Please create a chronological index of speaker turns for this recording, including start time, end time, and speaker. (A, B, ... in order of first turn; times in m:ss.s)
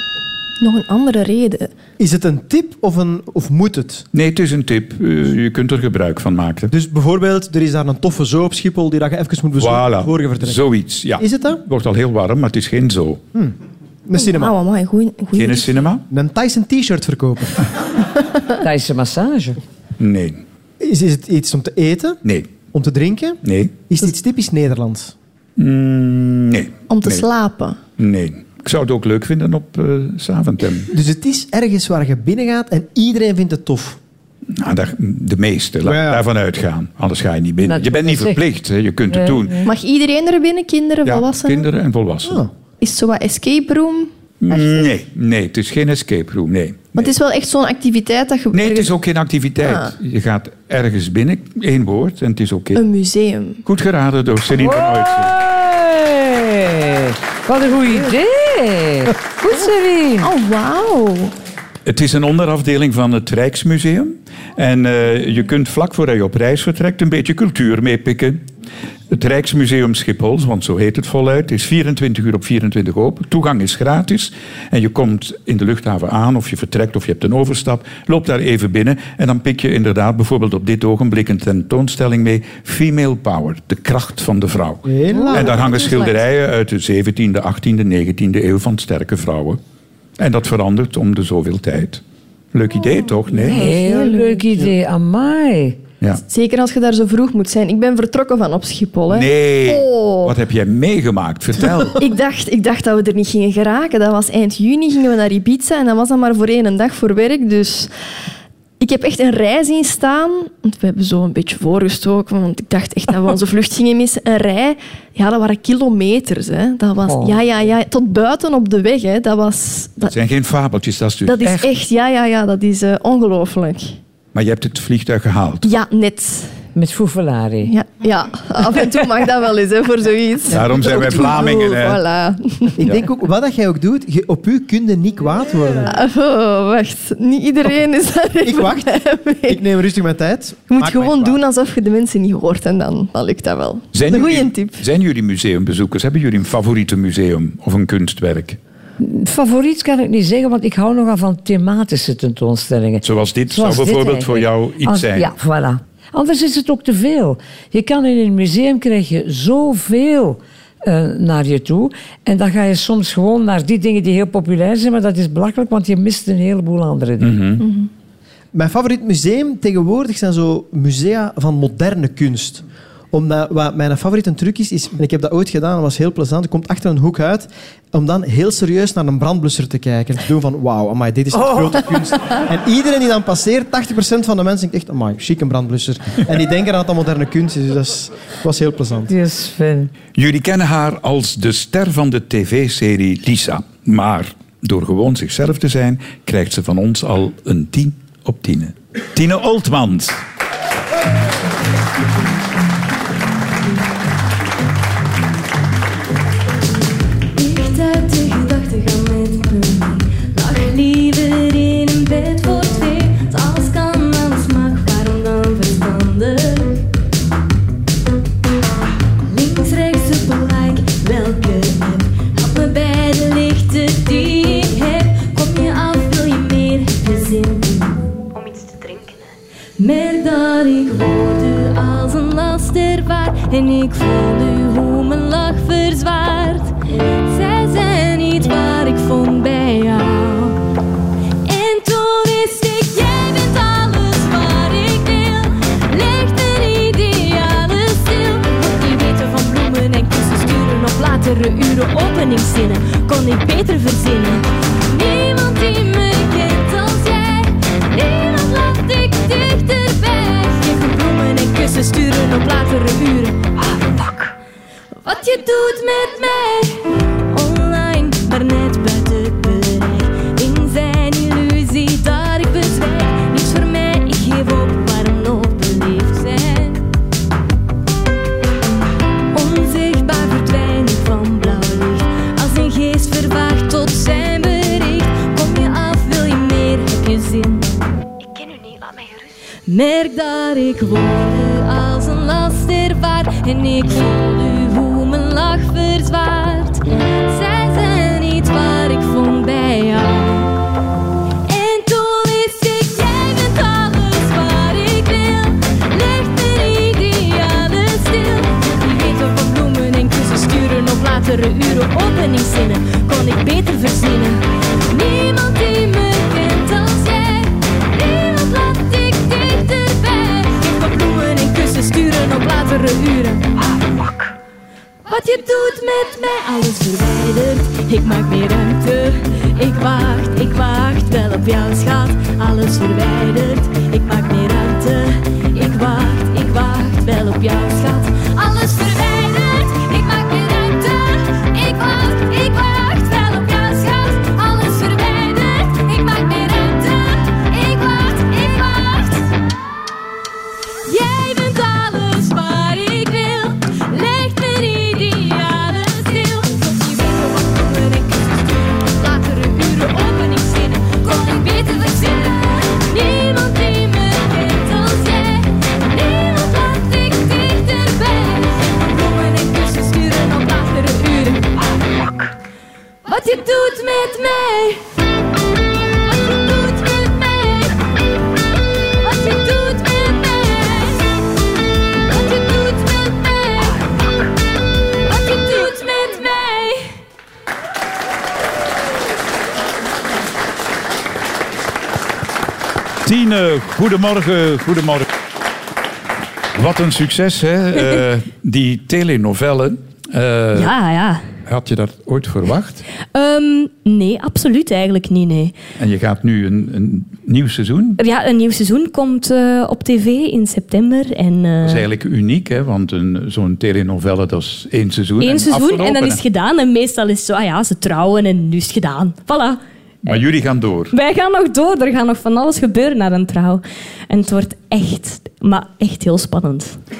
0:00.6-0:01.8 A
0:02.0-0:04.1 B
0:04.1-0:06.7 C
0:06.7-0:10.6 B
0:09.6-0:13.2 C
0:11.2-0:11.6 B
0:13.3-0:14.5 B
0:14.2-0:15.8 A
0:15.3-0:16.0 C
0:16.1-0:17.7 B
0:18.6-0:19.6 D
0:20.0-0:20.4 C
0:20.8-0:22.2 B
0:22.2-0:22.6 C
0:22.7-0:25.1 B
0:23.4-0:23.9 C
0:25.6-0:27.2 C
0:26.9-0:27.8 A
0:28.0-0:30.9 C
0:30.9-0:34.0 B
0:34.5-0:39.6 C
0:35.8-0:36.2 B
0:37.6-0:38.4 D
0:39.1-0:39.7 D
0:39.6-0:41.7 A
0:41.0-0:42.4 C
0:42.2-0:42.5 B
0:42.8-0:44.9 A
0:44.4-0:47.1 C
0:47.0-0:48.9 A
0:48.5-0:52.8 C
0:49.6-0:49.9 A
0:52.8-0:53.6 A
0:53.6-0:55.3 C
0:54.6-1:00.3 D
1:00.2-1:01.3 A
1:01.8-1:08.4 C
1:09.1-1:29.6 C
1:24.8-1:25.7 B
1:25.2-1:26.2 A
1:30.2-1:32.0 C
1:32.5-1:33.7 C
1:33.3-1:34.4 A
1:33.4-1:35.8 D
1:36.3-1:40.4 A
1:39.1-1:42.0 C
1:42.0-1:47.9 A
1:48.8-2:00.2 A
1:57.0-1:57.4 D
2:00.0-2:01.7 C
2:01.2-2:04.0 A
2:04.3-2:05.7 C
2:05.6-2:06.5 A
2:06.7-2:07.7 D
2:07.6-2:12.8 A
2:10.5-2:12.0 C
2:10.6-2:11.6 B
2:12.8-2:15.9 B
2:15.9-2:19.6 A
2:18.4-2:18.9 B
2:19.5-2:21.4 B
2:20.7-2:24.8 A
2:23.9-2:28.6 C
2:29.0-2:47.4 D
2:33.0-2:35.3 C
2:47.2-2:47.6 C
2:47.6-2:47.9 A
2:48.5-3:09.1 B
3:09.1-3:09.9 D
3:10.1-3:20.2 C
3:27.3-3:36.8 E
3:39.2-3:49.2 E
3:49.8-4:00.6 E
4:01.4-4:24.2 E
4:25.0-4:36.8 E
4:39.3-5:00.5 E
5:01.4-5:23.5 E
5:25.0-5:49.3 E
5:50.8-6:11.5 E
6:13.0-6:14.9 E
6:16.0-6:17.8 E
6:19.0-6:21.2 E
6:22.0-6:24.1 E
6:25.0-6:27.0 E
6:33.0-6:35.1 C
6:36.5-6:40.7 C
6:40.5-6:41.3 E
6:41.4-6:42.8 C
6:43.1-6:45.6 E
6:45.8-6:48.0 C
6:48.0-6:51.8 E
6:51.6-6:56.2 C
6:55.2-6:59.6 E
7:00.0-7:00.9 C
7:00.9-7:06.8 E